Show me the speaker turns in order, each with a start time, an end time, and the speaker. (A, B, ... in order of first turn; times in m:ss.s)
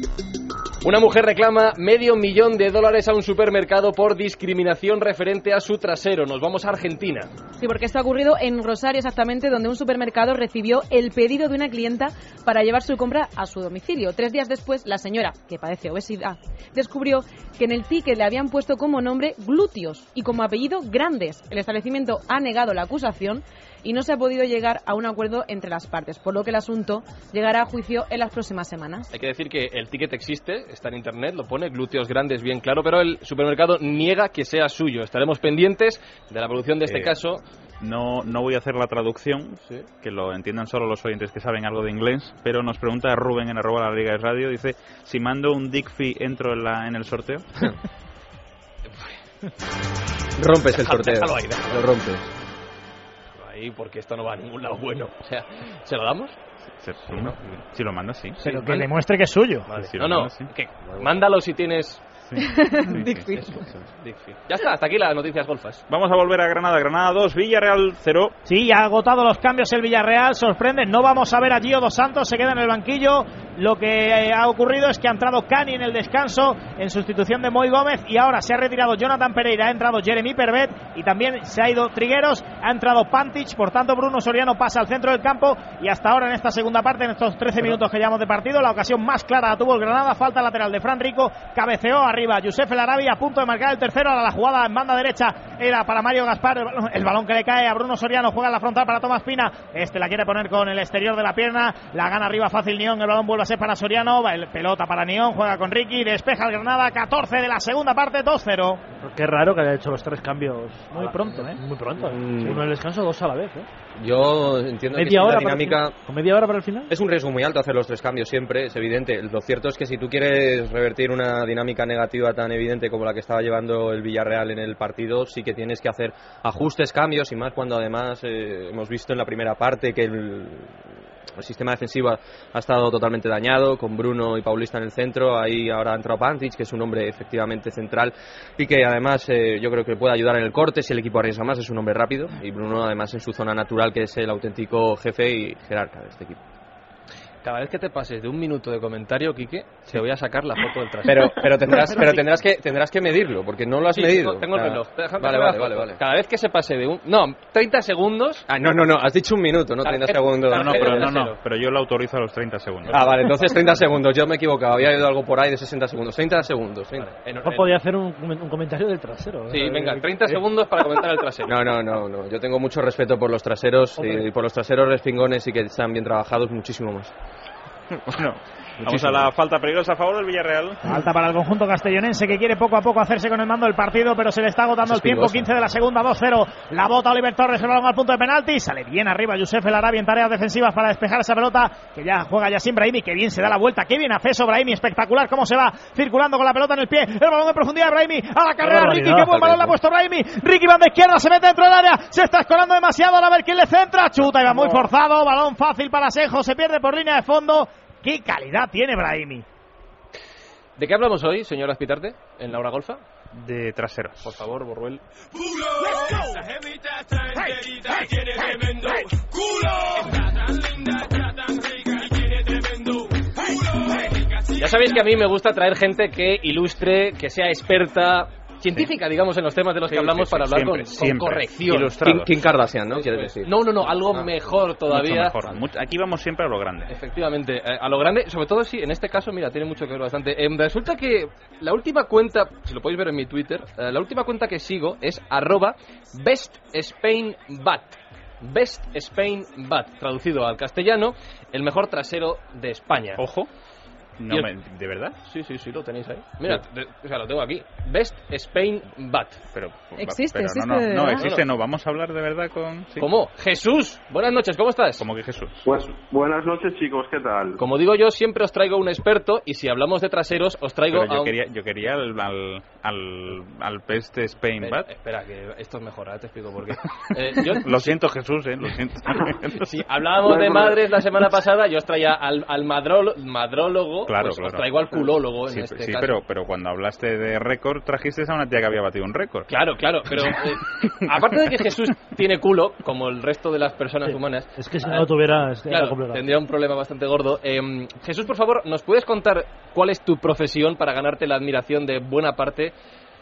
0:00.8-0:07.3 A
0:07.6-0:29.1 B
0:29.1-0:37.4 A
0:37.8-0:47.4 C
0:48.9-0:49.2 A
0:50.4-0:52.3 D
0:50.8-0:51.9 A
0:53.4-0:56.4 A
0:56.8-0:58.4 C
0:57.1-0:57.4 A
0:58.4-0:58.9 A
0:58.4-0:59.7 E
0:59.7-1:02.0 A
0:59.7-1:00.5 C
1:02.3-1:03.7 C
1:02.4-1:03.5 B
1:03.3-1:05.8 A
1:05.9-1:08.4 C
1:08.4-1:48.8 E
1:49.0-1:53.7 F
1:50.9-1:51.6 E
1:52.0-1:52.6 D
1:54.0-1:56.0 D
1:54.9-1:56.9 F
1:56.9-2:10.8 D
2:11.4-2:26.4 D
2:27.4-2:32.2 A
2:31.0-2:36.0 D
2:33.9-2:38.5 A
2:38.5-2:41.1 D
2:39.8-2:41.4 A
2:40.5-2:43.1 C
2:42.9-2:47.1 D
2:47.0-2:47.8 A
2:47.4-2:50.4 F
2:49.5-2:51.8 A
2:51.5-2:57.1 D
2:54.0-2:54.2 F
2:57.9-3:00.8 C
2:58.8-2:59.3 D
3:00.8-3:29.4 E
3:04.8-3:05.5 D
3:18.6-3:19.5 F
3:19.3-3:19.7 D
3:30.8-3:33.0 A
3:33.3-3:34.3 C
3:34.2-3:35.0 A
3:44.5-3:52.1 A
3:49.9-3:52.4 C
3:52.0-3:54.3 D
3:52.9-3:55.5 A
3:54.9-3:56.9 C
3:56.9-4:13.2 A
4:13.2-4:13.5 C
4:14.2-4:15.2 C
4:15.2-4:19.4 A
4:19.5-4:23.1 C
4:20.0-4:21.3 B
4:21.2-4:21.4 A
4:23.0-4:25.0 A
4:25.0-4:25.8 C
4:25.6-4:27.6 G
4:27.6-4:31.4 A
4:30.9-4:34.9 C
4:34.6-4:38.0 A
4:37.5-4:39.7 C
4:39.6-4:46.2 A
4:40.2-4:40.8 G
4:44.1-4:44.8 C
4:45.5-4:49.5 C
4:49.5-4:55.1 A
4:54.0-4:56.3 F
4:55.7-5:02.7 A